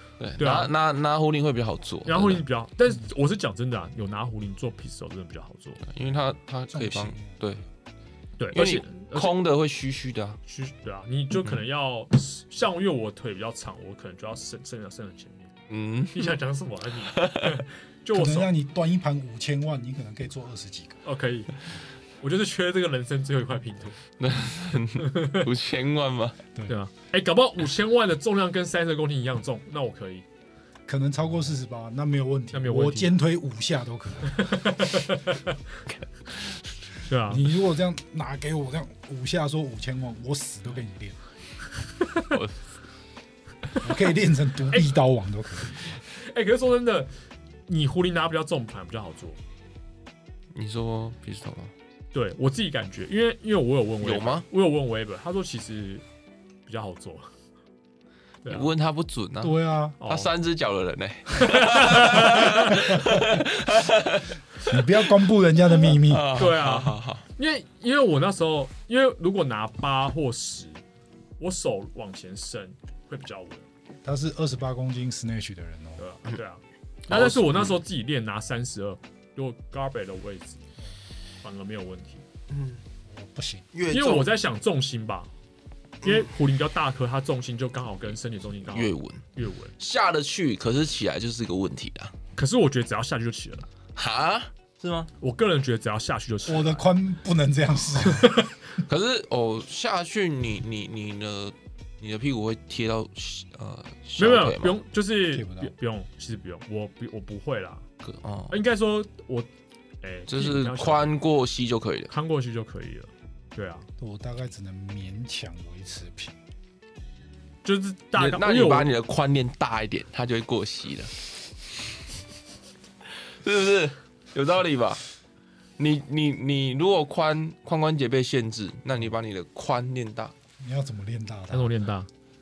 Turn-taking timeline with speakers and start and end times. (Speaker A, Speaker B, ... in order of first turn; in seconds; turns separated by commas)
Speaker A: 0.2-2.4, Speaker B: 0.4-0.7, Speaker B: 2.1-5.8, Speaker A: 5.8-7.6, Speaker C: 6.7-7.6, Speaker B: 8.4-9.4, Speaker A: 8.5-10.4, Speaker B: 10.5-15.5, Speaker A: 15.7-16.4, Speaker B: 16.1-18.5, Speaker A: 17.1-17.6, Speaker C: 18.1-21.0, Speaker B: 21.0-21.6, Speaker B: 22.2-24.0, Speaker A: 24.2-26.4, Speaker B: 25.0-25.5, Speaker B: 26.7-30.3, Speaker C: 30.9-34.5, Speaker B: 32.5-33.2, Speaker B: 34.3-35.8, Speaker A: 35.9-36.7, Speaker B: 37.1-37.5, Speaker C: 37.3-41.2, Speaker B: 42.0-42.4, Speaker A: 42.3-42.6, Speaker C: 43.8-46.0, Speaker B: 46.1-47.1, Speaker B: 47.7-49.4, Speaker A: 50.5-51.7, Speaker B: 52.1-56.0, Speaker A: 54.0-54.5, Speaker B: 56.7-57.3, Speaker B: 58.5-58.7, Speaker A: 58.5-67.2, Speaker C: 59.4-60.0, Speaker B: 60.0-60.3, Speaker B: 61.3-63.2, Speaker C: 64.6-66.5, Speaker B: 66.3-70.8, Speaker B: 71.4-73.7, Speaker C: 74.0-76.0, Speaker B: 76.0-80.6, Speaker A: 77.1-77.8, Speaker B: 81.4-82.2, Speaker A: 82.5-82.8, Speaker C: 83.1-83.7, Speaker A: 83.7-84.3, Speaker B: 83.9-85.3, Speaker B: 86.0-89.7, Speaker A: 88.7-89.3, Speaker A: 89.8-92.2, Speaker B: 92.4-93.7, Speaker A: 94.0-95.1, Speaker B: 95.2-96.9, Speaker C: 96.5-98.4, Speaker B: 98.0-98.6, Speaker A: 98.8-104.8, Speaker B: 104.2-107.8, Speaker C: 105.3-105.7, Speaker A: 108.0-108.6, Speaker B: 108.5-109.5, Speaker B: 110.0-111.1, Speaker A: 110.3-112.1, Speaker B: 112.1-113.9, Speaker C: 114.0-116.4, Speaker B: 117.6-118.9, Speaker A: 118.2-121.3, Speaker A: 123.2-125.0, Speaker A: 125.8-130.3, Speaker C: 130.6-131.8, Speaker B: 131.5-132.1